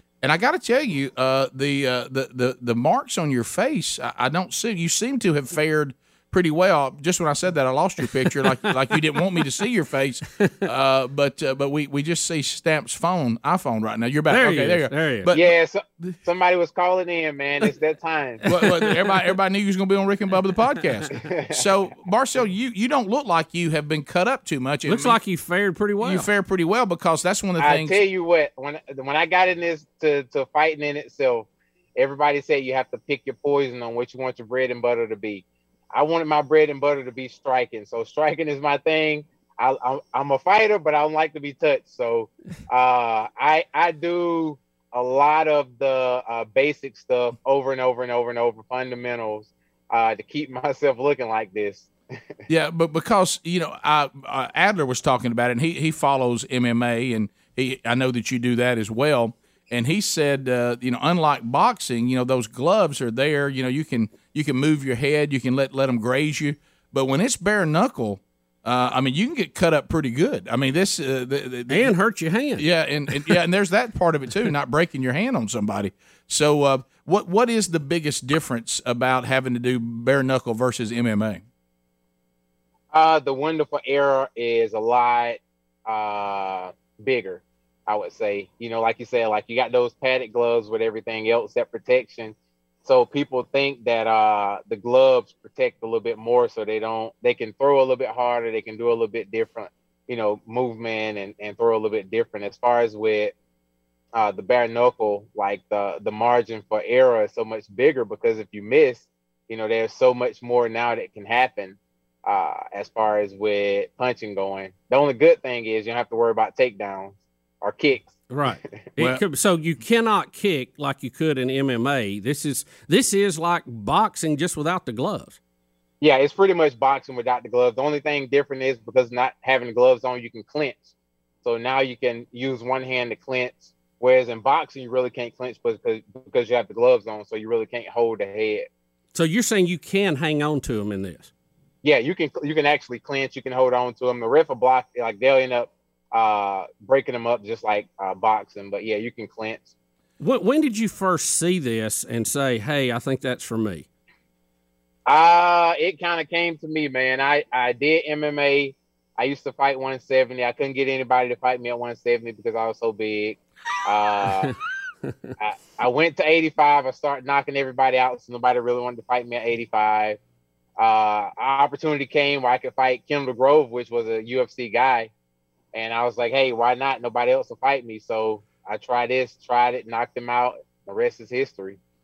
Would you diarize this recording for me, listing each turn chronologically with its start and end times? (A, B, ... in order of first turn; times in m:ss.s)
0:00.2-0:16.2 A
0:14.3-0:15.3 B
0:15.3-0:18.4 C
0:18.4-0:19.2 B
0:18.4-0:25.2 A
0:21.1-0:21.7 C
0:24.9-0:26.3 B
0:26.0-0:28.0 A
0:27.6-0:51.9 C
0:52.5-1:11.9 A
1:11.7-1:13.4 B
1:12.6-1:21.4 A
1:22.9-1:43.3 C
1:44.2-1:58.1 C
1:58.3-2:05.4 B
2:06.0-2:18.7 C
2:19.1-2:21.3 B
2:21.8-2:29.7 C
2:30.2-2:33.8 B
2:35.1-2:44.5 C
2:45.4-2:50.2 C
2:50.8-2:55.1 C
2:55.7-3:01.8 C